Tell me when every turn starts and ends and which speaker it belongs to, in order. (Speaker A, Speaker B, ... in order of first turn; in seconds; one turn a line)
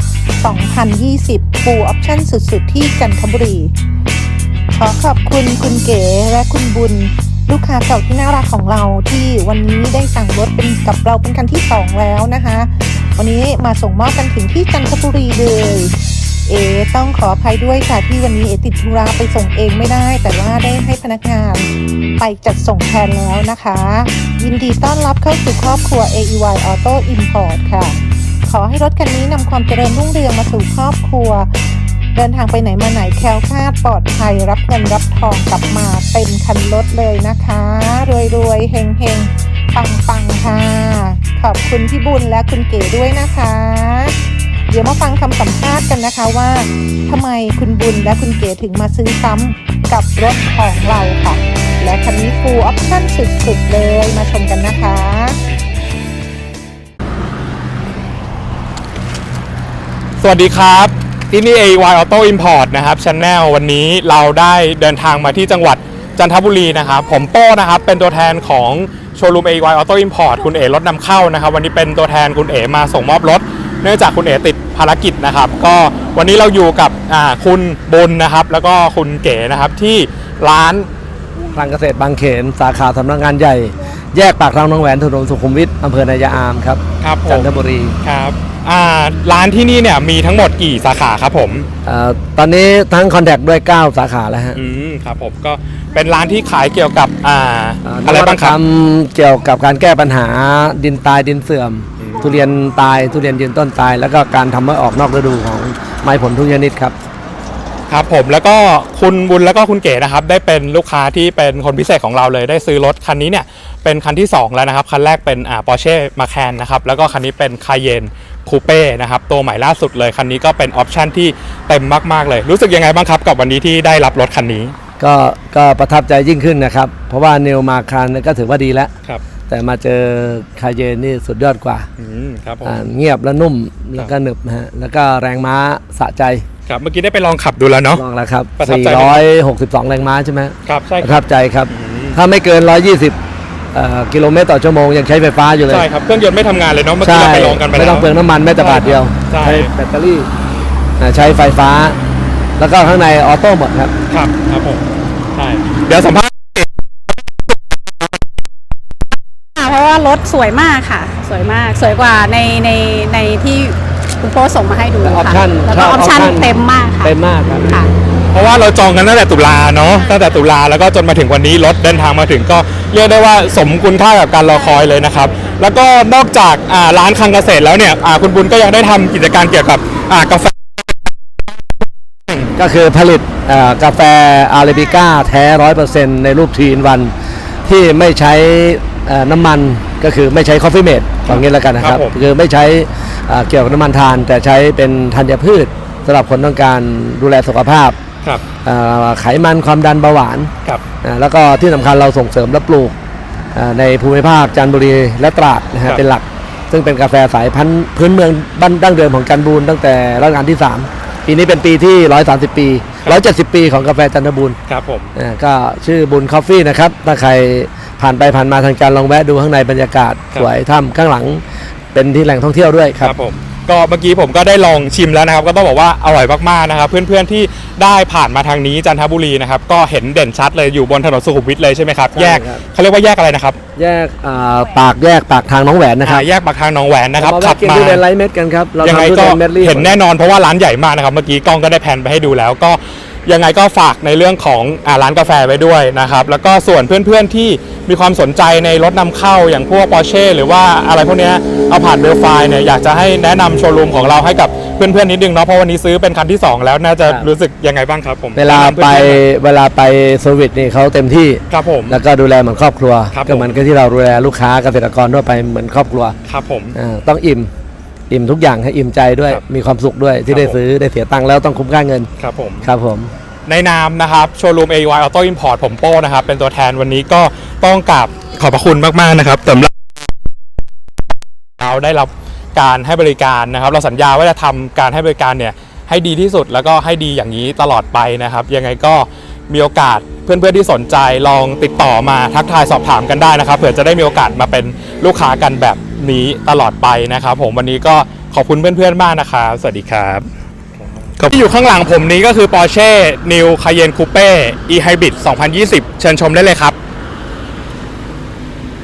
Speaker A: 0.4-3.7
Speaker A: 4.7-15.9
Speaker A: 16.5-31.6
Speaker A: 32.1-44.1
Speaker A: 44.7-55.4
Speaker B: 60.2-80.9
Speaker C: 81.5-88.0
Speaker B: 87.0-87.5
Speaker B: 88.0-91.7
Speaker C: 91.8-94.6
Speaker B: 94.5-98.5
Speaker C: 97.8-106.9
Speaker B: 107.9-124.7
Speaker C: 125.0-128.9
Speaker C: 129.5-131.9
Speaker B: 132.0-132.7
Speaker C: 132.6-136.4
Speaker B: 136.7-138.0
Speaker C: 137.9-143.2
Speaker B: 138.6-139.2
Speaker B: 140.7-142.2
Speaker C: 143.7-145.9
Speaker B: 145.7-149.7
Speaker C: 147.0-150.3
Speaker C: 151.0-152.0
Speaker C: 152.6-153.9
Speaker B: 154.1-154.8
Speaker B: 155.3-156.7
Speaker D: 159.6-167.1
Speaker C: 165.0-167.8
Speaker D: 167.7-167.9
Speaker B: 168.3-180.5
Speaker D: 174.7-175.6
Speaker C: 182.6-187.1
Speaker C: 187.7-198.0
Speaker B: 191.3-192.1
Speaker C: 198.6-200.5
Speaker C: 201.0-202.9
Speaker C: 203.5-214.6
Speaker B: 214.7-215.1
Speaker C: 215.2-221.4
Speaker C: 221.9-223.1
Speaker B: 223.0-233.6
Speaker C: 232.1-232.6
Speaker C: 233.8-236.3
Speaker B: 236.0-238.0
Speaker C: 237.2-239.9
Speaker B: 238.8-259.2
Speaker C: 258.3-266.1
Speaker B: 261.5-262.0
Speaker B: 263.1-263.5
Speaker B: 266.3-266.7
Speaker C: 266.7-267.5
Speaker C: 268.1-272.1
Speaker B: 270.3-270.6
Speaker B: 272.2-272.7
Speaker C: 272.6-273.1
Speaker B: 273.5-279.7
Speaker B: 281.6-300.2
Speaker B: 301.2-306.8